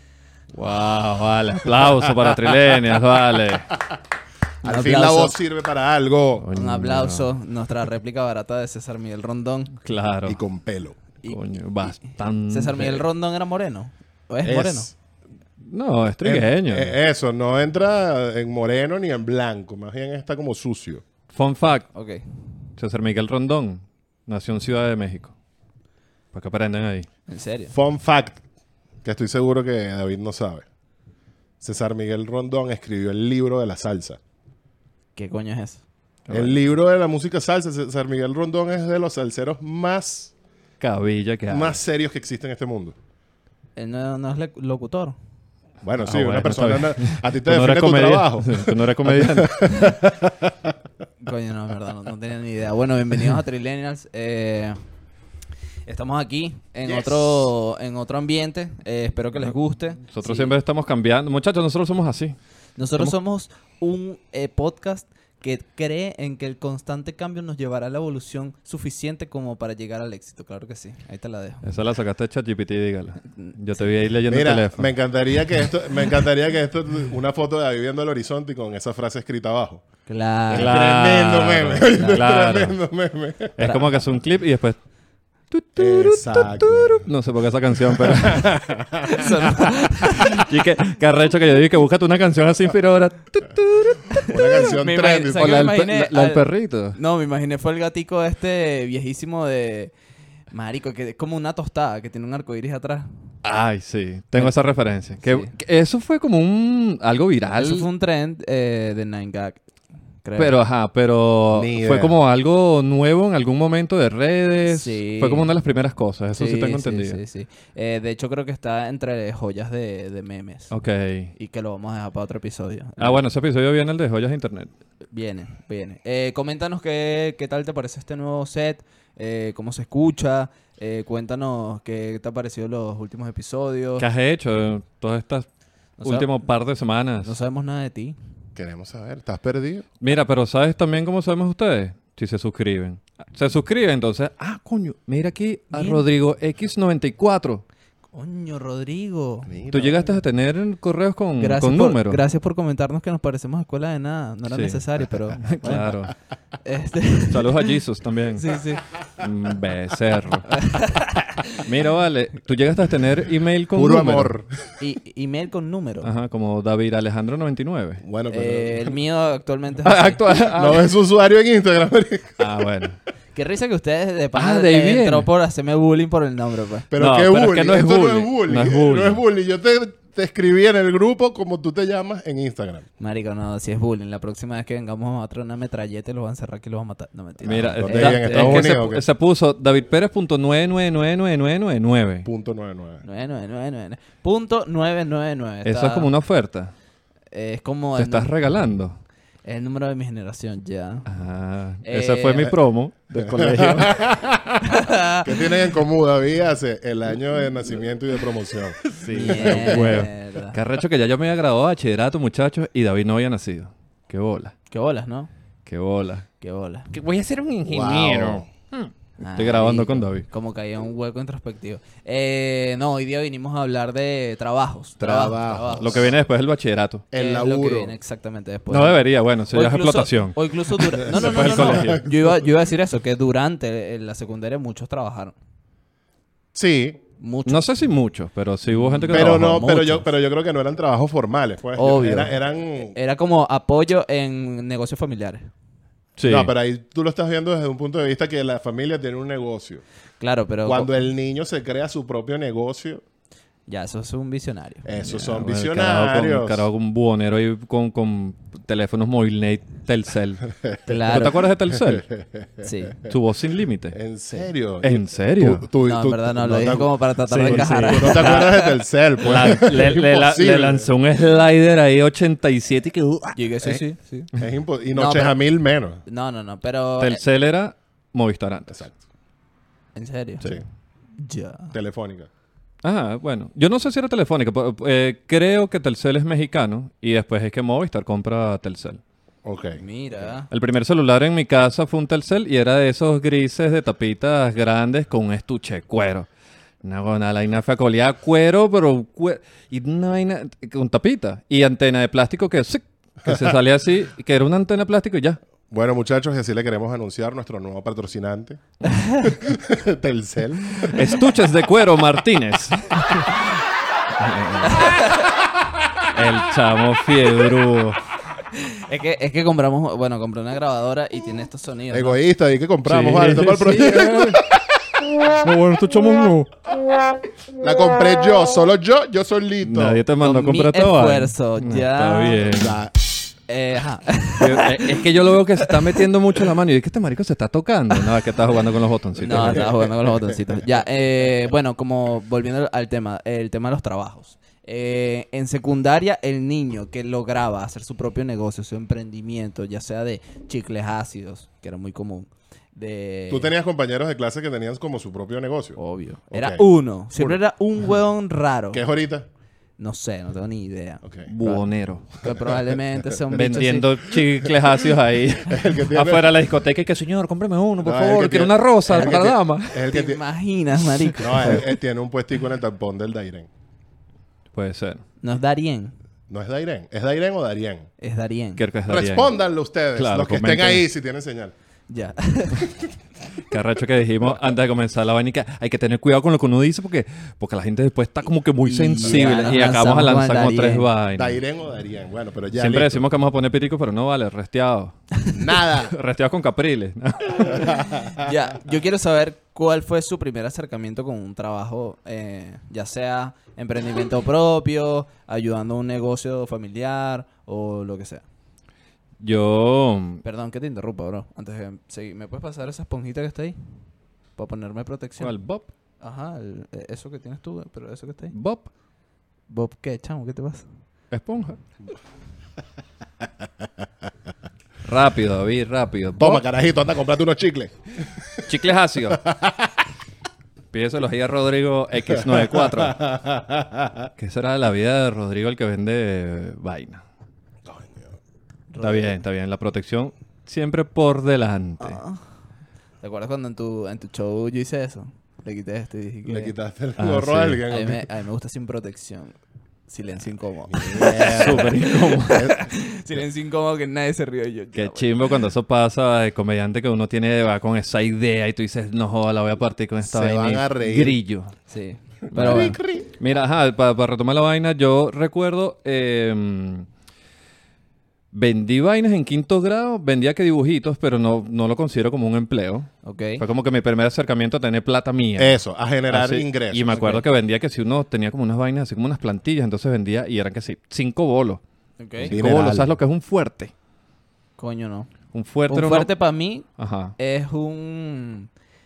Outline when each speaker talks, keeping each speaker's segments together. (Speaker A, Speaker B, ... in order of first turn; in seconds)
Speaker A: 0.5-3.7, 6.4-7.3, 9.8-10.4, 11.3-13.0, 15.6-16.9, 21.3-21.9, 22.8-25.3, 26.3-27.1, 36.3-36.6, 40.8-41.8, 46.0-49.8, 60.1-62.4, 71.6-74.9, 80.5-82.8, 83.6-84.8, 85.5-88.6, 90.0-97.0, 103.4-107.9, 110.4-117.2, 120.7-121.3, 123.0-124.7, 134.0-135.5, 136.0-137.4, 140.0-147.6, 149.7-152.2, 154.5-156.1, 157.3-158.6, 159.2-160.6, 161.6-164.3, 166.0-168.0, 169.8-170.9, 172.4-173.0, 174.3-175.3, 177.0-179.2, 187.4-192.3, 195.7-196.7, 198.0-199.0, 201.1-204.1, 209.0-214.5, 215.7-216.3, 216.9-220.3, 225.0-227.1, 228.7-232.0, 237.5-239.6, 246.2-246.5, 255.0-260.5, 261.1-262.1, 263.1-264.0, 264.8-265.7, 267.3-268.5, 269.2-273.4, 277.0-278.8, 282.8-289.0, 290.5-296.3, 296.8-305.4, 310.9-313.5, 314.2-315.0, 316.0-318.0, 322.9-324.4, 325.3-326.5, 329.6-332.8, 334.4-339.7, 361.3-362.1, 363.3-369.9, 374.5-375.0, 378.6-379.3, 379.9-380.9, 383.5-391.4, 392.6-394.9, 395.7-397.8, 409.2-410.2, 415.2-415.7, 418.3-418.7, 421.1-421.6, 424.8-426.4, 428.4-429.2, 430.7-433.1, 434.2-437.0, 438.8-442.0, 447.0-447.6, 451.1-452.5, 454.8-461.5, 462.4-466.9, 468.3-475.6, 476.1-481.6, 482.2-483.7, 485.3-486.1, 486.8-487.1
Speaker B: 1.9-2.6, 4.6-6.5, 10.3-11.0, 14.4-14.9, 16.2-21.0, 27.7-28.4, 29.0-30.6, 31.6-34.2, 36.3-40.3, 41.5-43.0, 45.8-50.7, 56.8-57.5, 74.3-79.8, 80.5-83.8, 85.8-87.1, 87.9-89.5, 94.3-95.6, 111.5-112.2, 138.6-139.9, 149.5-150.1, 163.7-164.5, 168.0-168.9, 170.4-172.4, 176.9-182.8, 187.8-189.1, 192.2-193.0, 203.2-210.0, 217.7-218.5, 225.0-226.1, 227.1-227.9, 231.0-232.3, 236.5-237.0, 239.1-243.0, 246.2-249.8, 250.7-253.0, 254.8-256.7, 261.7-262.7, 263.9-270.9, 274.3-276.0, 278.7-279.0, 281.7-282.3, 289.4-289.8, 303.2-303.6, 305.7-308.6, 309.2-311.2, 321.9-324.6, 327.6-330.0, 332.5-332.9, 339.3-339.9, 353.3-355.8, 356.3-356.6, 358.7-359.3, 361.0-361.3, 362.3-362.6, 363.2-364.5, 365.4-366.3, 367.8-370.2, 371.2-373.5, 376.3-377.9, 378.9-381.5, 389.0-389.3, 391.2-393.0, 395.3-395.9, 397.5-398.3, 426.2-428.5, 429.1-429.7, 432.3-434.1, 437.7-438.1, 446.3-448.1, 450.7-452.7, 460.0-461.2, 462.3-463.1, 475.4-477.0, 482.3-482.9
Speaker C: 4.6-5.3, 6.5-9.7, 11.2-11.9, 12.5-14.9, 21.9-22.2, 27.3-27.7, 35.2-35.8, 43.8-45.2, 51.2-54.8, 55.9-60.5, 62.8-71.7, 73.4-73.8, 80.1-80.8, 89.1-90.5, 94.2-99.9, 100.5-103.1, 105.2-105.5, 107.5-109.6, 110.2-110.6, 114.7-115.5, 116.3-120.7, 121.4-123.2, 125.1-134.1, 136.0-136.3, 137.2-138.2, 145.7-146.0, 148.1-149.5, 151.4-155.9, 156.6-157.7, 158.4-158.8, 160.5-161.7, 164.8-166.1, 168.3-170.2, 173.3-176.9, 183.0-188.7, 193.0-196.1, 197.3-198.3, 199.4-201.1, 201.8-202.6, 204.6-205.4, 209.0-210.6, 214.7-215.3, 216.4-216.9, 219.2-226.1, 227.2-235.3, 237.2-237.6, 238.9-240.1, 241.8-245.5, 250.2-250.9, 253.7-254.9, 260.9-261.5, 262.6-263.0, 265.8-268.7, 273.4-274.3, 274.9-275.4, 276.1-277.2, 279.9-280.4, 281.2-281.7, 289.8-290.5, 308.9-309.3, 314.7-315.3, 318.5-322.2, 330.2-332.5, 333.5-335.1, 335.6-336.0, 339.2-353.5, 355.8-358.8, 359.8-363.9, 369.9-371.7, 375.2-375.9, 378.0-378.6, 381.9-382.7, 388.6-390.9, 397.6-408.2, 410.2-413.6, 414.4-415.3, 416.0-418.3, 419.5-420.7, 438.7-439.1, 441.8-442.3, 443.0-446.5, 447.7-449.4, 449.9-455.4, 461.7-462.8, 473.0-473.4, 476.9-477.2, 482.0-482.3, 484.6-485.1, 485.7-486.7, 487.2-488.5